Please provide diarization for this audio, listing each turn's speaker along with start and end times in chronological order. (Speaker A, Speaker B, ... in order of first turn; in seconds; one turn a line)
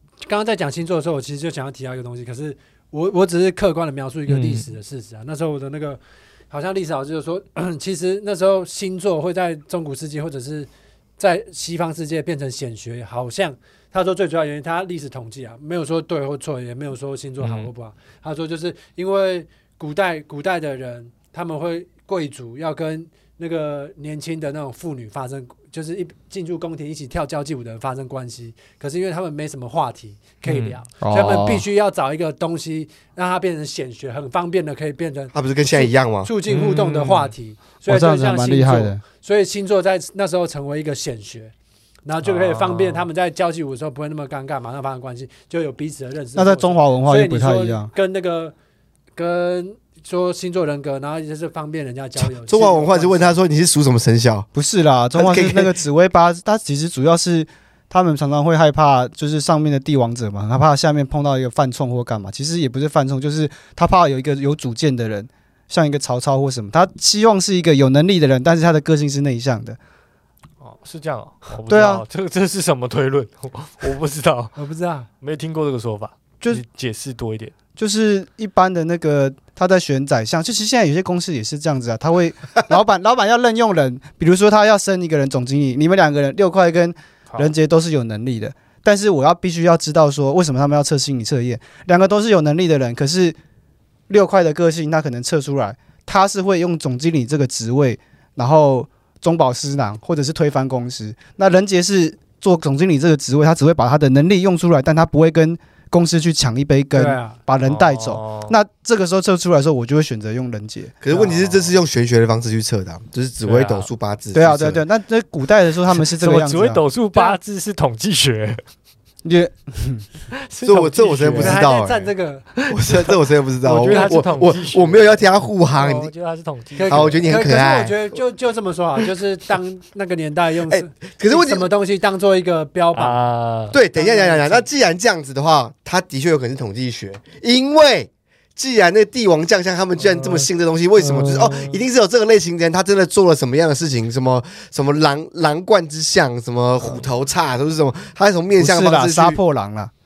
Speaker A: 0.2-41.5
Speaker B: 4.3-4.7
Speaker B: 17.4-17.7
Speaker B: 30.4-30.8
Speaker C: 31.0-31.6
Speaker D: 35.3-36.3
Speaker B: 36.5-37.3
Speaker C: 37.9-39.0
Speaker A: 42.0-48.5
Speaker B: 42.2-43.1
Speaker C: 46.4-47.9
Speaker A: 49.1-53.4
Speaker D: 52.4-54.5
Speaker C: 54.5-69.8
Speaker D: 55.1-55.8
Speaker B: 70.6-74.5
Speaker C: 71.7-72.0
Speaker A: 74.5-75.1
Speaker B: 75.2-77.5
Speaker C: 77.8-93.3
Speaker C: 94.1-110.9
Speaker A: 106.9-107.4
Speaker B: 107.6-108.5
Speaker D: 111.0-114.8
Speaker A: 111.1-111.4
Speaker B: 111.1-111.7
Speaker B: 113.4-113.9
Speaker C: 114.3-116.8
Speaker B: 115.9-118.6
Speaker C: 119.2-120.0
Speaker B: 120.3-121.7
Speaker D: 120.6-122.1
Speaker A: 121.3-122.5
Speaker B: 122.6-125.2
Speaker D: 122.7-126.1
Speaker A: 123.9-124.2
Speaker B: 125.7-127.4
Speaker A: 125.8-126.1
Speaker A: 126.7-133.2
Speaker D: 126.9-128.0
Speaker D: 130.7-131.7
Speaker B: 132.9-133.8
Speaker D: 133.7-149.4
Speaker A: 133.9-134.7
Speaker A: 140.0-140.4
Speaker B: 141.0-141.8
Speaker C: 148.6-149.9